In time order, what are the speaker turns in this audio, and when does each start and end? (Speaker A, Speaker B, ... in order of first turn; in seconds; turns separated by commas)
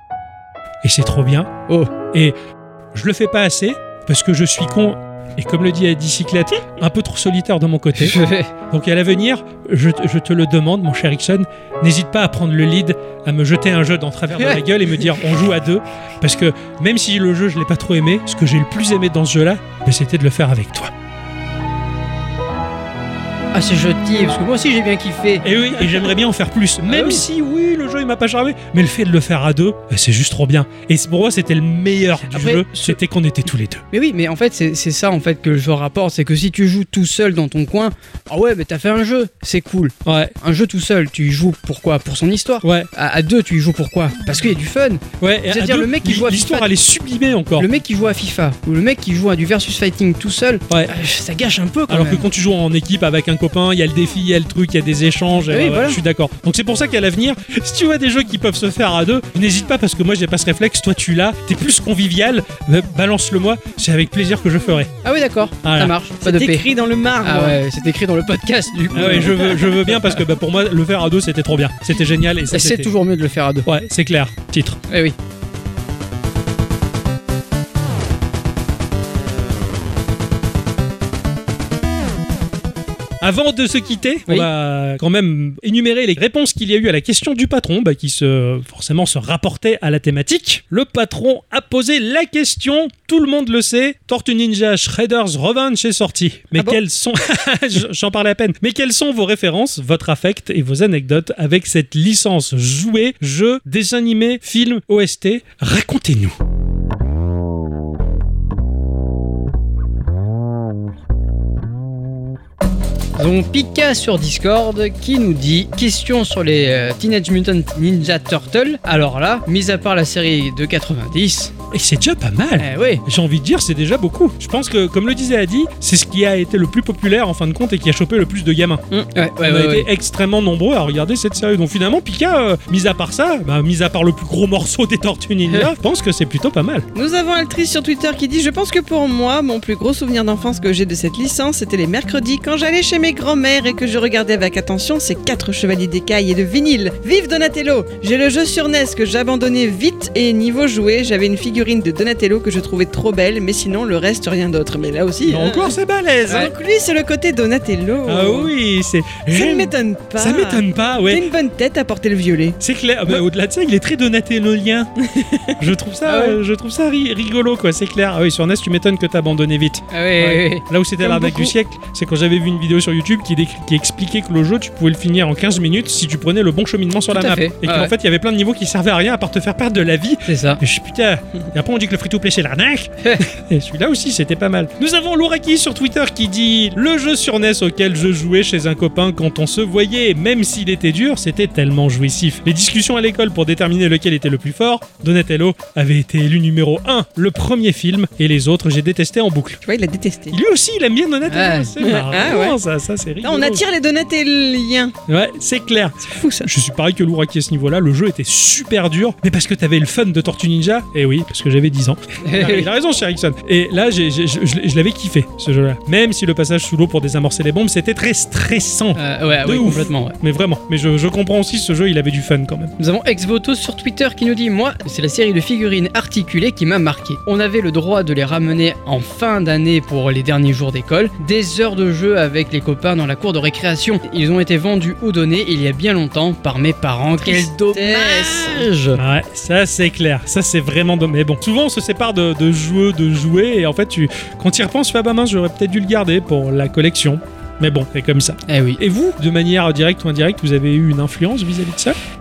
Speaker A: 0.8-1.5, Speaker A: 2.9-20.9, Speaker B: 8.0-8.5, Speaker B: 23.5-25.4, Speaker A: 25.4-33.8, Speaker B: 26.9-27.2, Speaker B: 32.2-33.0, Speaker B: 33.9-46.7, Speaker A: 40.0-40.3, Speaker A: 42.6-42.9, Speaker A: 45.2-47.7, Speaker B: 47.6-52.2, Speaker A: 51.9-64.9, Speaker B: 55.5-56.0, Speaker B: 65.0-66.7, Speaker A: 65.6-65.9, Speaker C: 66.2-67.6, Speaker B: 67.2-70.2, Speaker A: 68.9-72.9, Speaker B: 72.5-73.7, Speaker A: 73.7-74.8, Speaker B: 74.9-75.2, Speaker A: 83.2-106.3, Speaker B: 113.2-121.5, Speaker A: 121.7-128.8, Speaker B: 122.6-123.0, Speaker B: 129.1-129.9, Speaker A: 129.4-136.8, Speaker C: 136.9-155.7, Speaker A: 155.2-156.5, Speaker C: 156.3-158.5, Speaker A: 158.1-161.2, Speaker C: 159.3-162.6, Speaker A: 162.6-164.9, Speaker C: 165.0-165.6, Speaker A: 165.6-199.6, Speaker B: 166.1-166.4, Speaker B: 169.9-170.6, Speaker C: 171.0-171.5, Speaker B: 177.1-177.9, Speaker B: 180.3-180.6, Speaker C: 199.6-200.4, Speaker A: 200.3-203.6, Speaker B: 201.3-201.8, Speaker C: 201.8-202.6, Speaker C: 203.2-204.9, Speaker A: 205.1-222.7, Speaker C: 206.0-206.5, Speaker B: 212.2-212.7, Speaker B: 218.9-220.2, Speaker B: 222.8-239.0, Speaker C: 237.2-238.5, Speaker A: 238.9-252.0, Speaker B: 248.5-248.8